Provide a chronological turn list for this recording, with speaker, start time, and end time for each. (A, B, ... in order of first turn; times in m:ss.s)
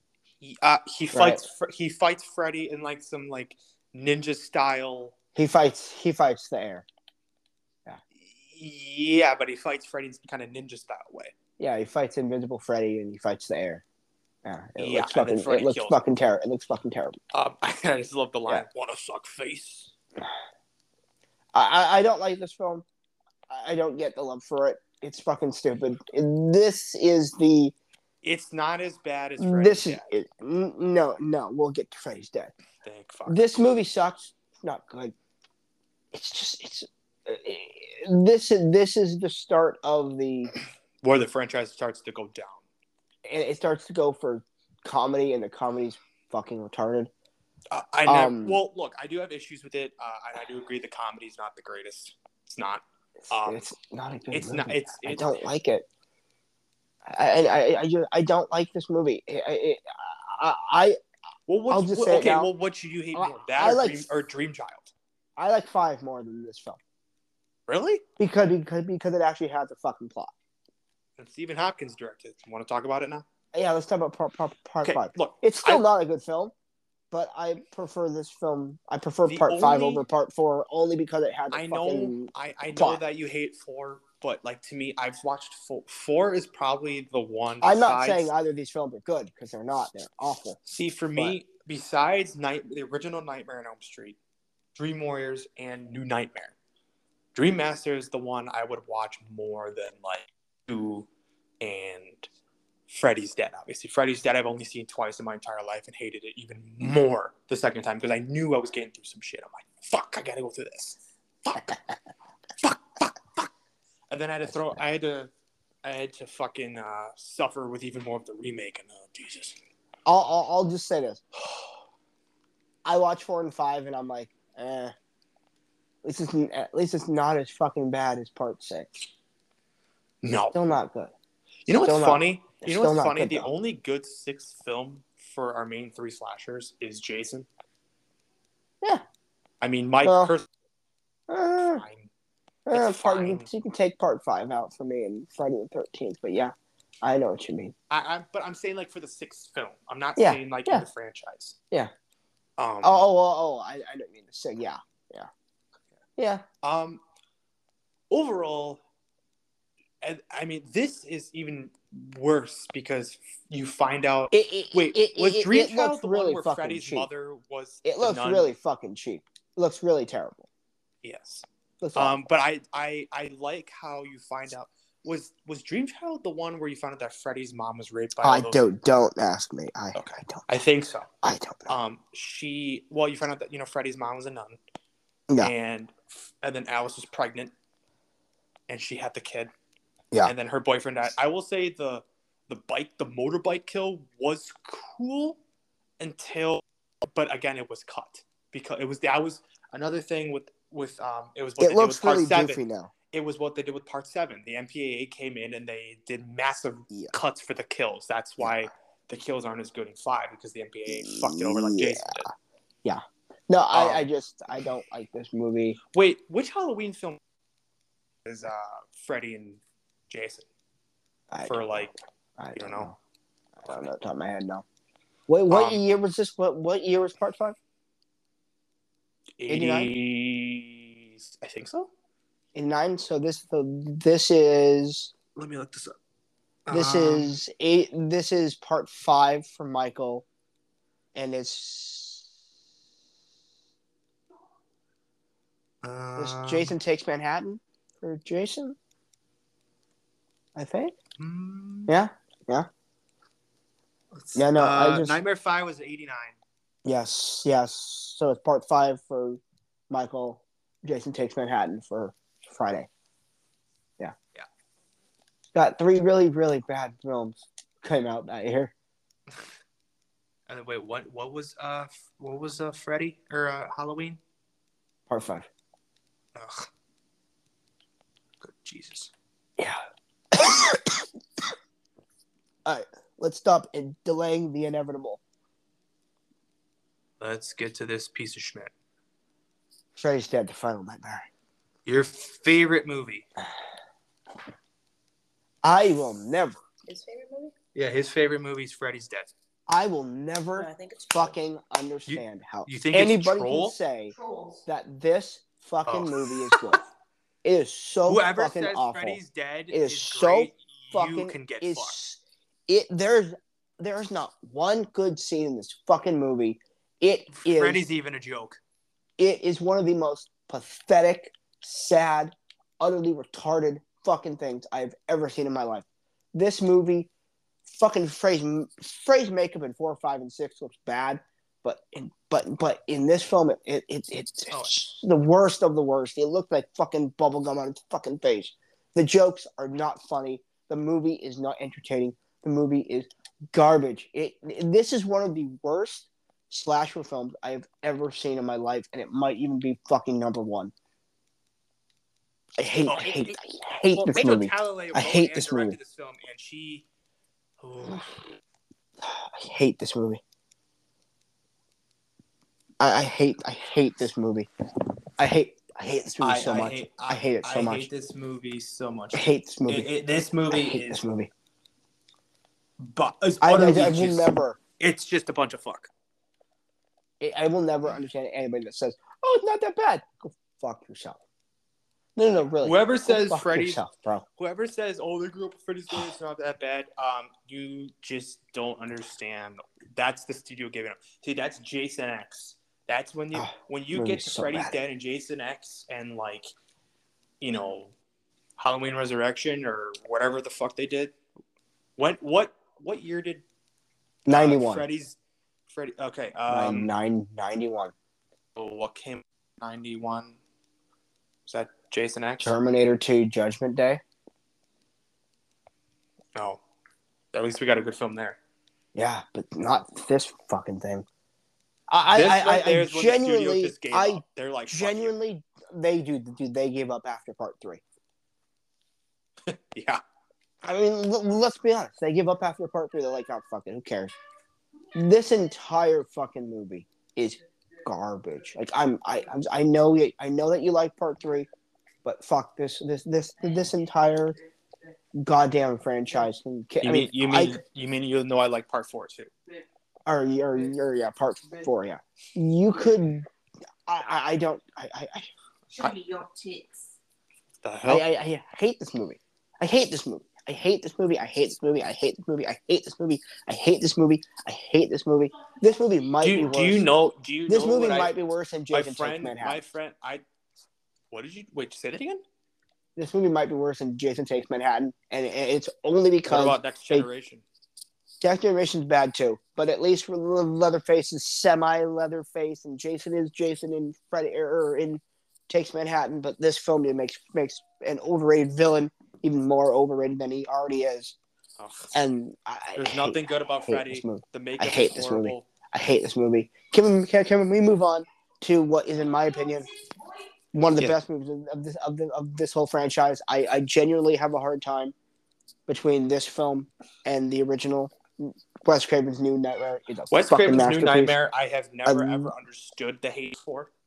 0:00.4-0:05.1 A
0:01.1-0:01.4 B
0:05.3-0:06.8 B
0:08.1-0:11.3 A
0:11.6-0:13.8 B
0:14.4-0:17.2 B
0:14.8-0:16.0 A
0:17.3-0:19.9 A
0:21.5-0:22.8 B
0:23.5-0:27.7 B
0:28.2-0:30.0 A
0:29.4-0:32.5 B
0:32.8-0:33.4 A
0:33.2-0:35.1 B
0:36.1-0:40.5 B
0:41.0-0:42.6 A
0:43.2-0:47.1 B
0:47.7-0:53.6 A
0:48.0-0:48.6 B
0:53.3-0:55.8 B
0:54.3-0:55.3 A
0:57.1-1:01.0 B
1:01.5-1:04.9 A
1:01.7-1:02.5 B
1:03.1-1:04.0 B
1:05.4-1:06.8 B
1:07.7-1:08.0 A
1:08.2-1:10.3 B
1:11.2-1:13.2 A
1:13.5-1:16.5 B
1:14.8-1:15.8 A
1:17.1-1:23.0 B
1:19.2-1:20.0 A
1:21.5-1:28.3 A
1:27.6-1:30.6 B
1:30.6-1:34.2 A
1:34.7-1:36.5 A
1:37.3-1:41.1 A
1:41.6-1:42.3 A
1:42.9-1:51.8 A
1:52.6-1:53.5 A
1:54.1-1:55.3 A
1:55.8-1:59.6 A
2:00.0-2:01.2 B
2:02.8-2:04.9 B
2:06.0-2:09.0 B
2:10.2-2:10.6 A
2:10.5-2:11.1 B
2:11.6-2:17.5 A
2:11.8-2:13.5 B
2:19.6-2:20.5 A
2:20.0-2:20.3 B
2:21.3-2:21.8 B
2:21.6-2:22.1 A
2:22.6-2:27.7 B
2:22.7-2:23.5 A
2:27.9-2:31.6 A
2:30.2-2:30.8 B
2:32.6-2:33.0 A
2:32.8-2:35.3 B
2:36.2-2:36.4 B
2:36.6-2:37.0 A
2:38.1-2:38.8 A
2:40.0-2:48.5 A
2:44.3-2:47.1 B
2:47.8-2:50.5 B
2:51.0-2:58.6 A
2:51.8-2:52.2 B
2:58.2-3:00.4 B
2:59.9-3:01.1 A
3:01.2-3:01.7 B
3:01.7-3:04.6 A
3:05.4-3:07.5 A
3:08.7-3:09.5 A
3:10.2-3:15.4 A
3:16.0-3:32.3 A
3:21.6-3:22.9 B
3:26.9-3:27.1 B
3:28.4-3:28.6 B
3:30.9-3:32.2 B
3:32.8-3:35.8 B
3:33.7-3:34.0 A
3:35.9-3:37.2 A
3:38.2-3:40.5 A
3:41.3-3:43.0 B
3:41.4-3:41.9 A
3:42.5-3:42.9 A
3:43.6-3:44.6 B
3:45.3-3:47.6 B
3:45.5-3:45.8 A
3:49.4-3:51.9 A
3:49.5-3:49.9 B
3:52.5-3:55.1 B
3:55.3-3:56.0 A
3:56.7-3:57.4 A
3:56.7-4:00.2 B
4:01.1-4:02.3 B
4:05.8-4:06.8 A
4:06.2-4:08.8 B
4:10.6-4:10.9 B
4:11.2-4:11.9 A
4:11.9-4:12.7 B
4:14.1-4:16.4 A
4:14.4-4:15.2 B
4:16.8-4:22.9 B
4:25.5-4:28.7 B
4:30.5-4:34.2 A
4:35.1-4:35.5 B
4:36.3-4:36.7 A
4:38.4-4:39.1 A
4:40.3-4:41.0 B
4:42.6-4:45.2 B
4:47.2-4:48.7 A
4:50.0-4:51.3 B
4:51.8-4:53.2 A
4:55.6-4:56.6 B
4:56.8-4:57.5 C
4:57.7-4:59.3 A
4:59.7-5:04.1 B
5:00.5-5:01.3 C
5:02.1-5:03.8 A
5:04.1-5:04.6 C
5:04.6-5:06.8 B
5:05.9-5:06.7 A
5:07.4-5:17.8 B
5:08.1-5:11.9 A
5:17.3-5:18.6 A
5:19.2-5:27.1 B
5:27.7-5:50.7 B
5:34.5-5:34.9 A
5:52.6-5:55.8 B
5:52.8-5:53.4 A
5:53.9-5:56.8 A
5:57.6-5:58.2 A
5:59.0-6:00.2 B
6:02.8-6:04.5 B
6:05.2-6:07.9 B
6:06.2-6:11.0 A
6:09.1-6:09.9 B
6:10.5-6:11.3 B
6:12.8-6:15.9 A
6:13.4-6:14.6 B
6:17.2-6:21.2 B
6:22.2-6:24.2 B
6:22.6-6:23.8 A
6:24.4-6:36.5 A
6:33.3-6:34.8 B
6:37.4-6:37.9 A
6:38.6-6:41.1 A
6:42.0-6:43.4 A
6:44.2-6:44.8 B
6:44.3-6:46.9 A
6:46.5-6:47.9 B
6:48.5-6:50.4 A
6:51.4-6:52.6 A
6:52.4-6:54.0 B
6:56.3-6:56.6 A
6:57.3-6:58.4 A
6:58.9-7:01.0 B
7:01.9-7:07.8 B
7:02.1-7:05.1 A
7:09.5-7:10.0 A
7:10.6-7:14.1 B
7:14.9-7:21.5 B
7:22.0-7:24.4 B
7:25.1-7:27.6 B
7:26.8-7:29.3 A
7:30.1-7:33.3 B
7:33.9-7:35.3 B
7:35.7-7:36.8 C
7:37.6-7:38.0 A
7:37.8-7:46.9 B
7:46.2-7:48.2 A
7:47.5-7:49.6 B
7:48.7-7:50.2 A
7:51.1-7:52.2 A
7:53.0-7:57.1 B
7:56.3-7:57.4 A
7:58.2-8:11.2 B
8:11.6-8:11.9 A
8:11.9-8:19.7 B
8:12.7-8:15.5 A
8:20.5-8:24.9 B
8:25.7-8:31.1 B
8:30.1-8:33.7 A
8:31.8-8:32.3 B